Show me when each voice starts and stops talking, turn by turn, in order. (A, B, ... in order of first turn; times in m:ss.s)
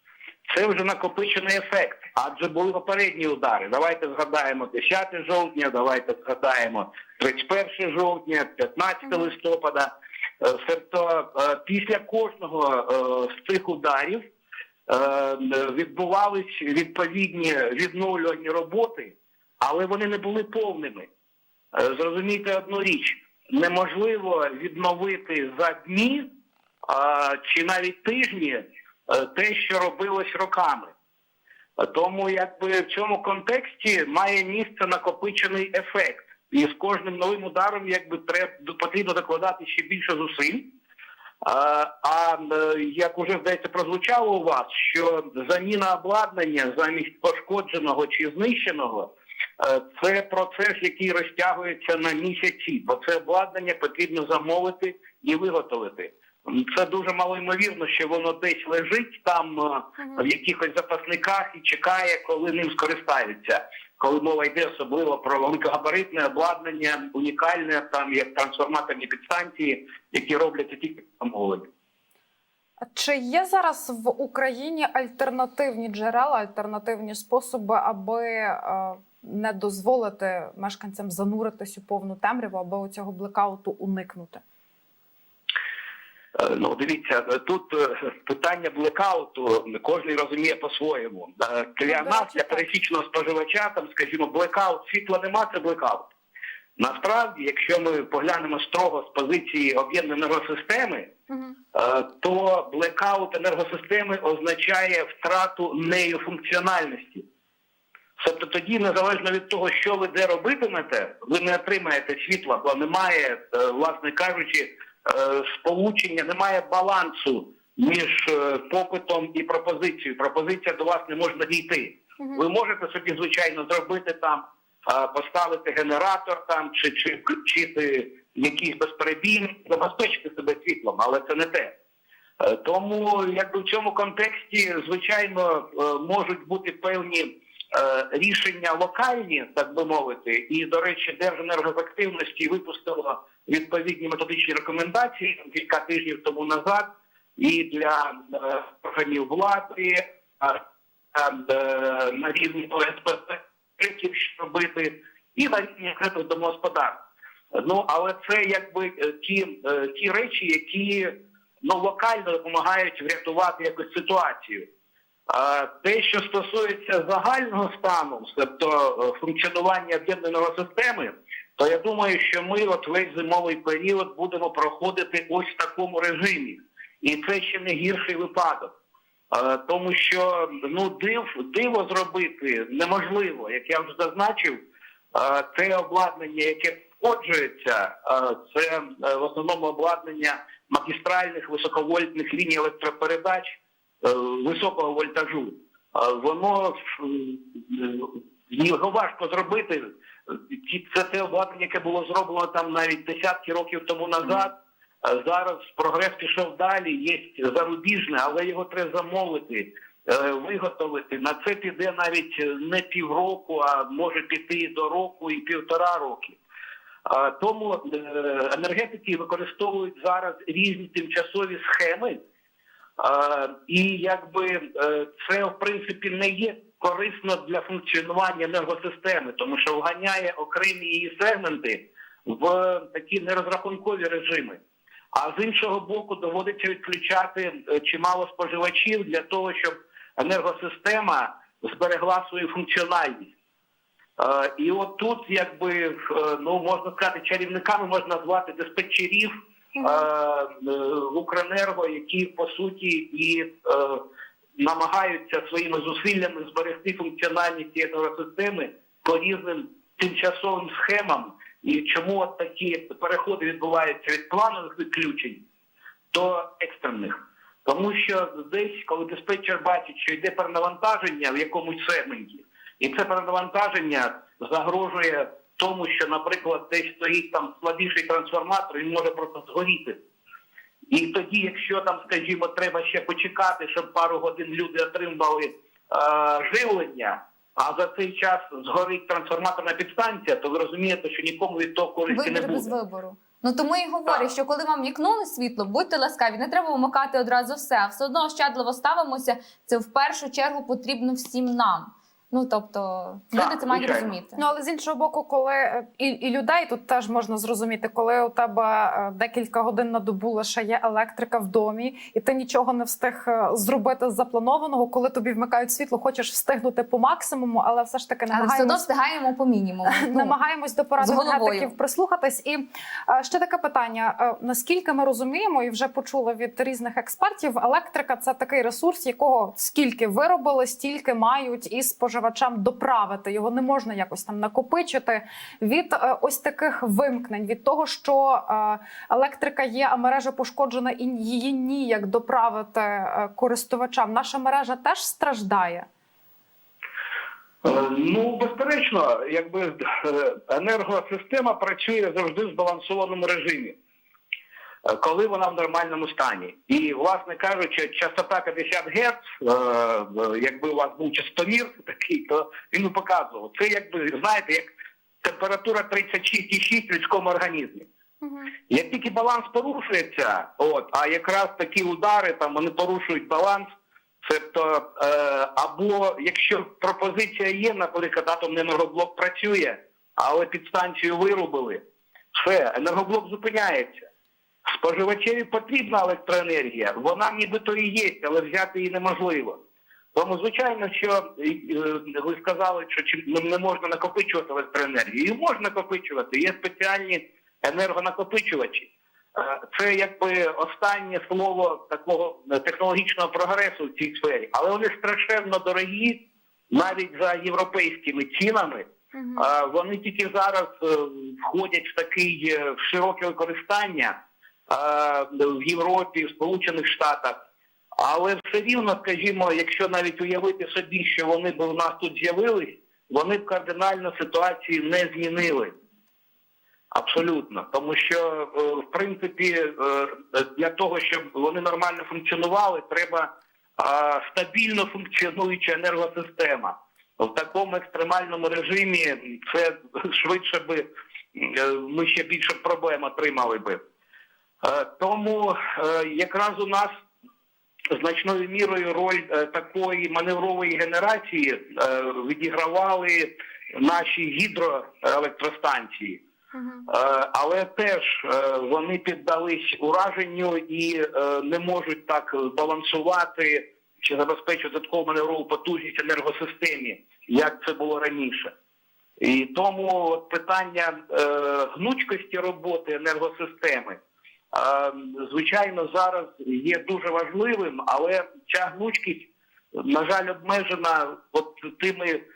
0:00.5-0:14.2 A
0:14.9-0:21.1 A
0:21.7-0:26.3 A
0:26.9-0:30.9 A
0:31.8-0:40.7 A
0:41.4-1:11.7 A
1:00.0-1:00.2 B
1:12.9-1:24.4 B
1:26.4-1:36.1 A
1:31.9-1:32.7 B
1:36.8-1:41.1 A
1:41.3-1:41.6 B
1:41.7-1:47.2 A
1:48.2-2:11.7 A
2:12.4-2:26.9 A
2:27.4-2:30.6 A
2:31.1-2:37.0 A
2:37.5-2:44.7 A
2:45.3-2:58.7 A
2:59.3-3:04.6 A
3:05.1-3:36.4 A
3:37.1-3:42.2 A
3:43.0-3:54.6 A
3:55.1-4:03.3 A
4:04.2-4:14.0 A
4:09.8-4:10.1 B
4:14.6-4:25.4 A
4:26.1-4:40.0 A
4:40.9-4:52.7 A
4:52.1-5:04.4 C
5:03.4-5:04.1 A
5:04.4-5:18.9 B
5:18.3-5:20.4 C
5:19.9-5:45.9 B
5:21.0-5:21.7 C
5:47.6-5:53.8 A
5:54.8-6:04.7 A
6:05.2-6:07.9 A
6:08.2-6:08.5 B
6:08.7-6:13.6 A
6:14.2-6:21.8 A
6:22.4-6:24.1 A
6:24.7-6:29.6 A
6:30.2-6:46.2 A
6:46.7-6:54.1 A
6:49.1-6:49.5 B
6:54.7-6:57.4 A
6:58.0-7:05.7 A
7:06.9-7:23.8 A
7:24.6-7:26.9 A
7:27.9-7:36.2 A
7:36.5-7:36.9 B
7:36.9-7:48.5 A
7:49.2-7:54.0 A
7:54.5-8:02.2 A